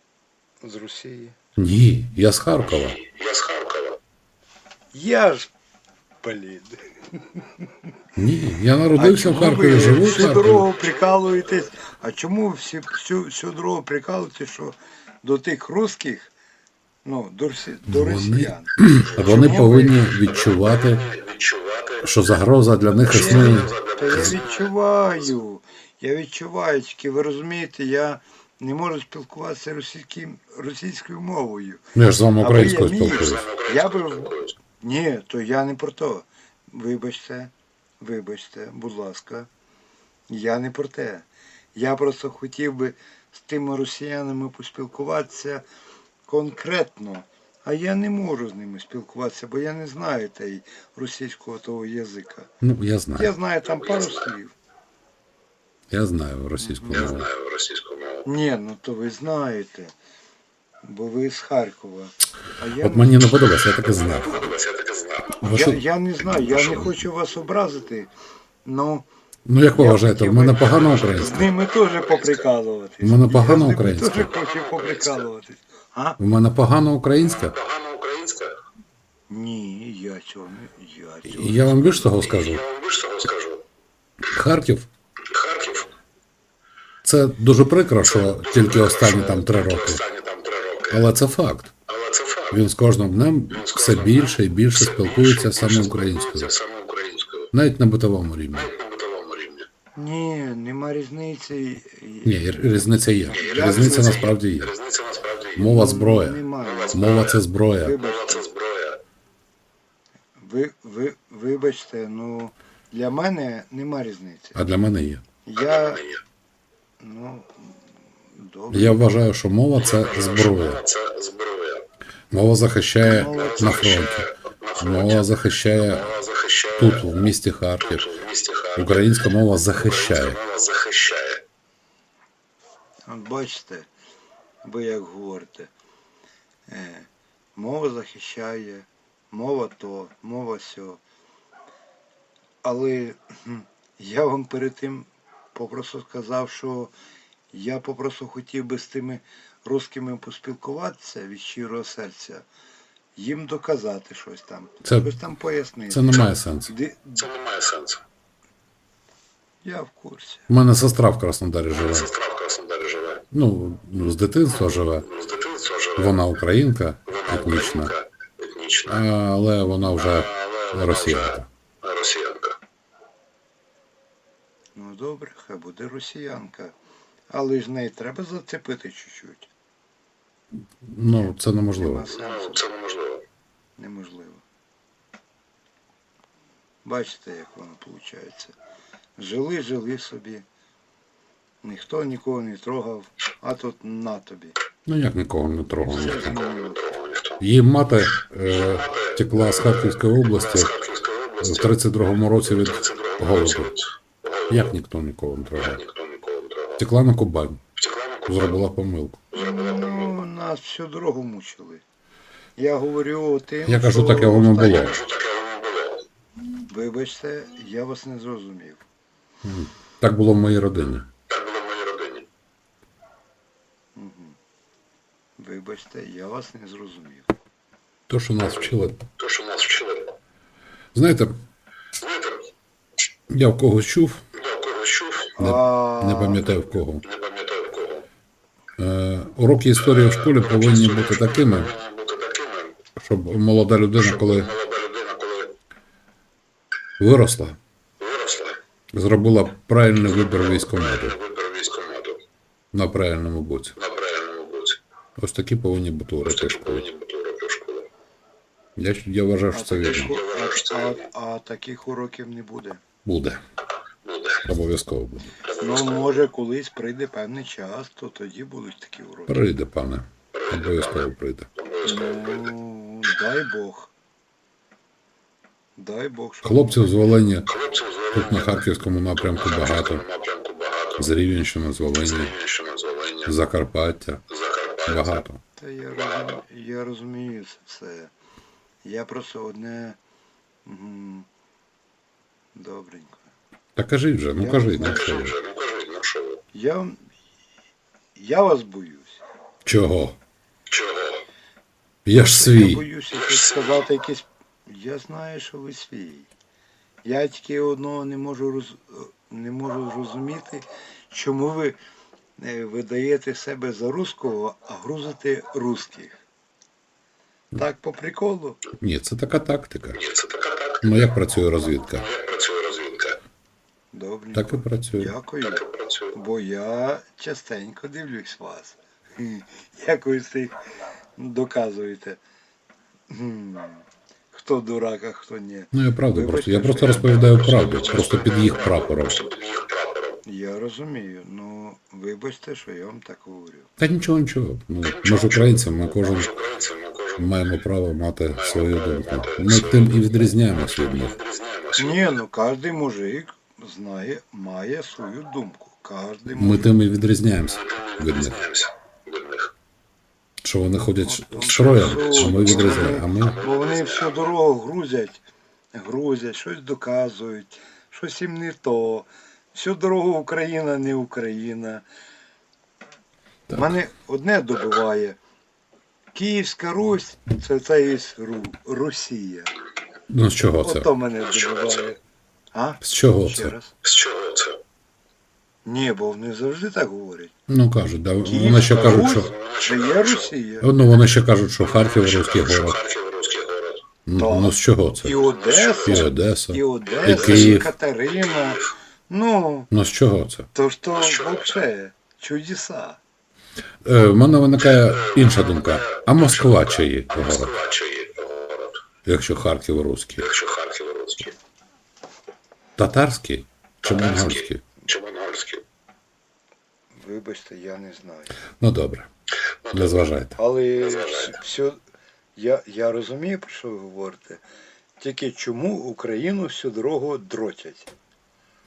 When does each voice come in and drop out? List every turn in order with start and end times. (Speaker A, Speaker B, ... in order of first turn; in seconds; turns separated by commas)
Speaker A: 0.6-1.4, Speaker B: 1.6-3.0, Speaker C: 3.0-4.0, Speaker A: 4.9-5.5, Speaker A: 6.2-7.7, Speaker B: 8.2-10.7, Speaker A: 8.9-16.3, Speaker A: 17.0-20.0, Speaker B: 17.9-21.1, Speaker C: 21.1-22.0, Speaker B: 22.0-24.4, Speaker A: 23.1-39.5, Speaker C: 23.5-24.1, Speaker B: 31.9-33.5, Speaker C: 33.5-34.4, Speaker A: 40.3-45.6, Speaker A: 46.3-52.5, Speaker B: 52.6-53.3, Speaker A: 53.1-54.5, Speaker B: 55.9-57.3, Speaker A: 56.6-57.2, Speaker C: 57.3-58.2, Speaker A: 58.2-59.9, Speaker A: 60.8-63.4, Speaker B: 62.8-64.6, Speaker C: 64.4-65.2, Speaker B: 65.3-66.9, Speaker A: 65.5-68.1, Speaker A: 68.6-69.0, Speaker B: 69.5-71.5, Speaker A: 69.7-76.2, Speaker B: 73.0-74.3, Speaker B: 76.2-77.6, Speaker C: 77.5-78.5, Speaker A: 79.3-82.1, Speaker B: 81.2-82.6, Speaker C: 82.4-83.6, Speaker B: 84.3-84.9, Speaker C: 85.3-85.8, Speaker B: 87.0-90.0, Speaker C: 89.7-90.9, Speaker B: 90.9-91.7, Speaker C: 91.9-92.5, Speaker B: 92.5-96.5, Speaker C: 93.6-94.0, Speaker C: 95.0-97.5, Speaker B: 97.5-98.7, Speaker C: 98.7-99.7, Speaker A: 100.0-102.5, Speaker B: 102.2-104.7, Speaker A: 103.3-104.3, Speaker C: 103.6-105.5, Speaker B: 105.5-108.0, Speaker A: 105.6-107.2, Speaker A: 107.8-108.5, Speaker C: 108.1-109.0, Speaker A: 110.4-114.6, Speaker B: 114.5-115.2, Speaker A: 115.4-116.0, Speaker C: 115.8-116.1, Speaker A: 117.0-119.2, Speaker B: 118.7-120.8, Speaker C: 120.0-121.8, Speaker B: 122.3-126.2, Speaker A: 123.0-123.9, Speaker C: 123.3-125.0, Speaker C: 126.1-126.8, Speaker B: 126.8-128.1, Speaker C: 127.9-128.8, Speaker B: 128.7-130.4, Speaker C: 130.2-131.4, Speaker A: 133.1-133.9, Speaker A: 134.6-135.7, Speaker A: 136.7-141.0, Speaker A: 142.6-146.9, Speaker A: 147.5-152.5, Speaker A: 153.2-157.3, Speaker B: 154.8-155.1, Speaker B: 155.9-156.7, Speaker C: 157.2-158.0, Speaker A: 159.6-160.5, Speaker B: 160.5-162.1, Speaker C: 161.9-163.2, Speaker B: 163.3-165.1, Speaker C: 165.1-166.0, Speaker B: 165.9-167.9, Speaker C: 167.3-168.9, Speaker B: 168.8-171.5, Speaker C: 171.8-172.6, Speaker A: 174.7-176.7, Speaker A: 177.3-179.5, Speaker B: 180.8-182.1, Speaker A: 181.8-182.7, Speaker C: 182.5-183.2, Speaker A: 183.8-184.4, Speaker A: 186.8-188.5, Speaker A: 189.2-190.4, Speaker A: 191.6-194.6, Speaker B: 194.9-196.4, Speaker A: 195.9-197.0, Speaker C: 196.9-197.3, Speaker B: 197.4-200.7, Speaker C: 200.6-201.5, Speaker B: 201.4-203.8, Speaker C: 202.9-203.6, Speaker B: 204.5-205.8, Speaker C: 205.8-206.8, Speaker B: 206.8-207.6, Speaker C: 207.8-208.3, Speaker B: 208.2-209.2, Speaker A: 209.3-211.8, Speaker A: 212.6-214.9, Speaker B: 213.7-215.0, Speaker C: 214.7-216.0, Speaker A: 216.7-218.8, Speaker B: 219.4-221.1, Speaker C: 221.3-222.2, Speaker A: 223.9-224.4, Speaker A: 225.4-227.3, Speaker B: 228.1-229.1, Speaker C: 229.2-230.1, Speaker B: 230.9-231.4, Speaker B: 233.3-234.2, Speaker C: 234.4-235.3, Speaker A: 235.4-236.4, Speaker B: 235.4-237.0, Speaker C: 237.1-238.0, Speaker B: 238.8-241.7, Speaker C: 241.7-242.7, Speaker B: 242.9-244.5, Speaker C: 244.4-245.5, Speaker B: 247.0-247.6, Speaker C: 248.0-248.6, Speaker B: 248.9-251.2, Speaker C: 251.2-252.2, Speaker B: 252.7-253.8, Speaker C: 253.8-254.8, Speaker B: 255.2-256.9, Speaker C: 256.5-257.9, Speaker B: 258.8-260.2, Speaker A: 259.5-262.8, Speaker B: 263.0-263.4, Speaker C: 264.1-264.4, Speaker B: 264.4-265.3, Speaker A: 265.5-269.4, Speaker B: 269.3-271.5, Speaker C: 271.8-272.2, Speaker A: 271.8-273.9, Speaker A: 275.8-277.1, Speaker B: 276.4-277.6, Speaker C: 277.6-278.2, Speaker B: 278.1-280.1, Speaker C: 279.6-281.0, Speaker B: 281.0-282.4, Speaker C: 282.3-283.2, Speaker B: 283.2-284.2, Speaker C: 284.4-284.9, Speaker B: 284.9-285.4, Speaker A: 285.6-288.1, Speaker A: 288.8-290.0, Speaker A: 290.6-291.3, Speaker A: 292.5-293.3, Speaker B: 293.8-295.4, Speaker A: 294.4-295.2, Speaker C: 295.1-296.4, Speaker A: 296.5-297.0, Speaker A: 298.1-299.2, Speaker B: 299.6-300.1, Speaker C: 300.7-301.1, Speaker B: 302.1-302.8, Speaker A: 302.1-306.3, Speaker A: 307.0-311.8, Speaker A: 312.4-316.2, Speaker A: 317.5-318.6, Speaker B: 318.8-320.0, Speaker C: 320.0-320.8, Speaker B: 320.8-322.1, Speaker C: 322.1-323.1, Speaker A: 323.9-330.5, Speaker B: 324.3-325.1, Speaker A: 331.2-332.2, Speaker A: 333.1-337.4, Speaker B: 335.7-339.3, Speaker C: 339.3-339.9, Speaker A: 340.2-343.7, Speaker B: 343.8-346.3, Speaker C: 346.3-347.1, Speaker B: 347.2-351.2, Speaker C: 351.2-351.9, Speaker A: 351.8-356.7, Speaker B: 356.3-358.4, Speaker C: 357.8-359.5, Speaker B: 360.4-363.4, Speaker A: 361.0-365.2, Speaker A: 365.7-371.8, Speaker B: 373.5-373.8, Speaker A: 373.6-375.2, Speaker A: 376.1-379.5, Speaker B: 380.1-380.9, Speaker A: 380.6-382.0, Speaker A: 382.5-383.7, Speaker B: 382.8-383.6, Speaker C: 383.8-384.6, Speaker A: 385.6-387.3, Speaker B: 387.5-389.3, Speaker A: 388.2-390.7, Speaker C: 389.6-390.0, Speaker B: 390.6-392.8, Speaker C: 392.6-393.8, Speaker B: 394.1-395.2, Speaker A: 394.1-399.7, Speaker B: 395.8-397.7, Speaker B: 399.7-400.5, Speaker A: 400.5-403.0, Speaker B: 403.8-407.5, Speaker C: 407.5-408.8, Speaker B: 409.0-410.3, Speaker C: 410.3-411.3, Speaker B: 412.8-414.6, Speaker C: 414.9-415.6, Speaker A: 416.9-418.4, Speaker B: 418.6-419.1, Speaker B: 419.7-420.4, Speaker A: 420.3-421.8, Speaker A: 422.4-424.4, Speaker A: 425.0-427.9